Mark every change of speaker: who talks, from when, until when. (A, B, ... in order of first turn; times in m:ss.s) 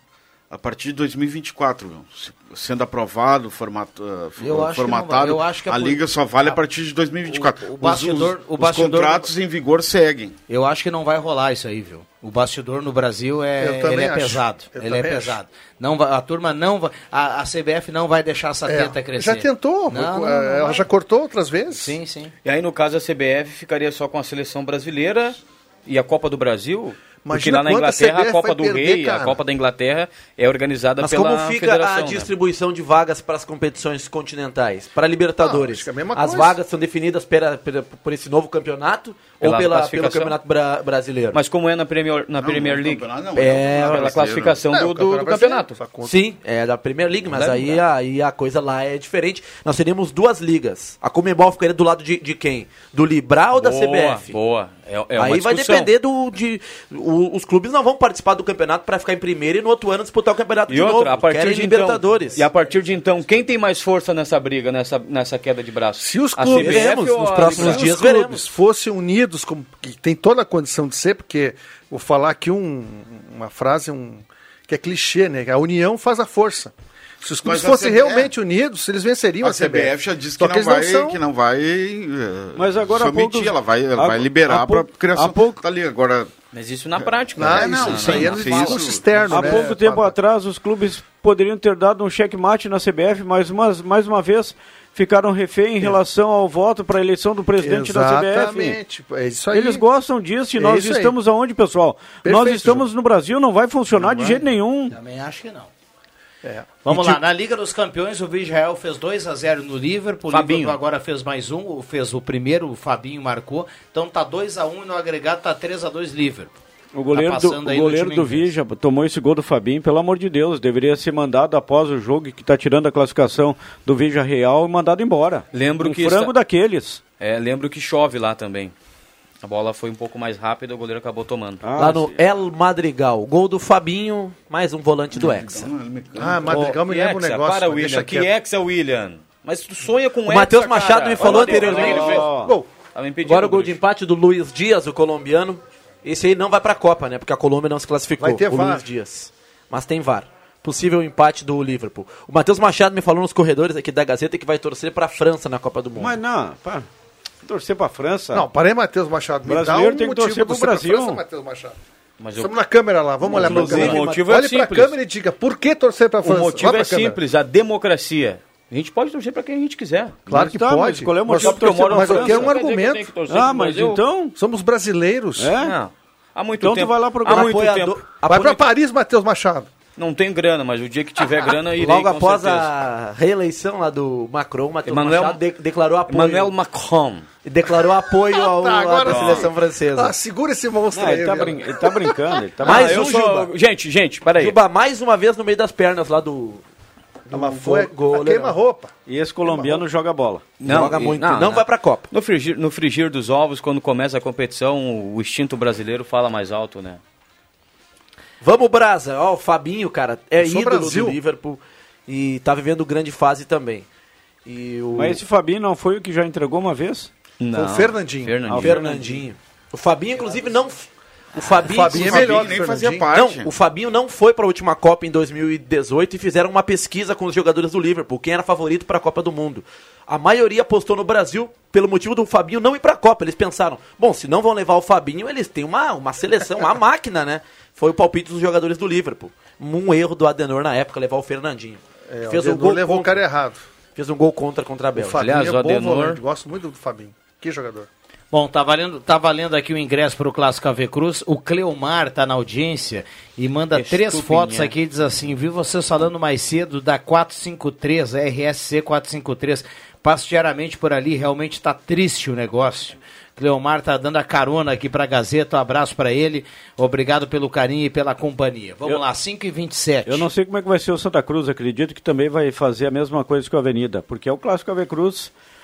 0:00.5-0:10.4 A
0:04.4-0:06.6 B
0:07.3-0:09.3 B
0:10.5-0:20.9 B
0:13.6-0:15.4 C
0:18.7-0:22.0 C
0:21.7-0:22.3 B
0:22.4-0:32.3 D
0:27.2-0:29.4 C
0:31.0-0:41.4 E
0:35.4-0:36.6 C
0:39.4-0:40.4 D
0:41.3-0:43.0 D
0:42.4-0:44.6 A
0:43.4-0:44.1 E
0:43.7-0:45.8 D
0:44.7-0:46.2 C
0:46.0-0:54.4 E
0:47.3-0:47.8 D
0:53.5-0:55.9 D
0:55.2-1:02.4 E
1:00.7-1:08.0 D
1:06.0-1:21.2 C
1:06.5-1:08.4 E
1:17.4-1:18.3 A
1:19.4-1:26.3 A
1:22.6-1:25.6 F
1:26.5-1:28.8 D
1:27.0-1:29.7 A
1:27.4-1:30.2 C
1:29.3-1:38.8 F
1:37.6-1:39.8 C
1:39.5-1:45.0 F
1:40.6-1:41.2 C
1:42.2-1:42.9 C
1:44.0-1:44.4 C
1:44.9-1:45.7 B
1:46.4-1:47.2 C
1:46.8-1:56.5 B
1:50.3-1:50.8 D
1:56.9-2:07.0 F
1:57.1-1:58.5 B
2:05.5-2:06.3 D
2:07.2-2:08.7 D
2:09.4-2:11.6 D
2:11.6-2:12.2 F
2:11.8-2:15.7 E
2:15.1-2:16.6 A
2:16.2-2:18.3 C
2:16.5-2:22.3 D
2:20.2-2:22.3 E
2:21.3-2:22.5 F
2:21.6-2:22.7 C
2:22.9-2:23.8 D
2:23.2-2:36.2 E
2:28.2-2:28.9 C
2:36.0-2:36.9 F
2:37.4-2:38.4 F
2:38.3-2:41.8 C
2:39.5-2:41.2 F
2:42.2-2:42.5 D
2:42.4-2:47.2 C
2:43.2-2:44.3 E
2:43.3-2:45.0 D
2:46.2-2:50.2 D
2:50.3-2:52.6 F
2:50.3-2:53.1 C
2:51.3-2:54.0 D
2:53.3-2:54.3 F
2:54.4-2:55.5 C
2:55.4-2:55.8 F
2:55.6-2:58.0 D
2:56.6-2:57.5 F
2:57.2-2:58.6 E
2:58.3-2:59.7 C
3:00.0-3:02.7 D
3:01.8-3:06.5 E
3:04.9-3:05.4 D
3:06.1-3:07.3 D
3:07.4-3:10.1 E
3:08.3-3:12.2 C
3:09.1-3:09.5 D
3:10.9-3:13.1 F
3:12.6-3:13.5 E
3:12.6-3:14.6 D
3:14.4-3:16.6 E
3:17.3-3:18.6 E
3:17.3-3:18.9 C
3:19.1-3:20.5 F
3:19.4-3:19.8 C
3:20.6-3:27.0 D
3:20.6-3:22.1 E
3:28.4-3:33.9 E
3:30.4-3:31.2 C
3:34.5-3:35.2 E
3:34.9-3:37.1 F
3:37.4-3:39.2 D
3:37.5-3:38.5 C
3:38.5-3:38.9 F
3:38.6-3:42.6 E
3:41.6-3:43.1 C
3:41.9-3:43.5 A
3:43.1-4:03.2 E
4:02.1-4:03.6 C
4:04.0-4:05.2 E
4:05.0-4:07.9 C
4:05.2-4:06.2 D
4:08.3-4:30.3 B
4:13.7-4:14.7 D
4:30.1-4:35.3 F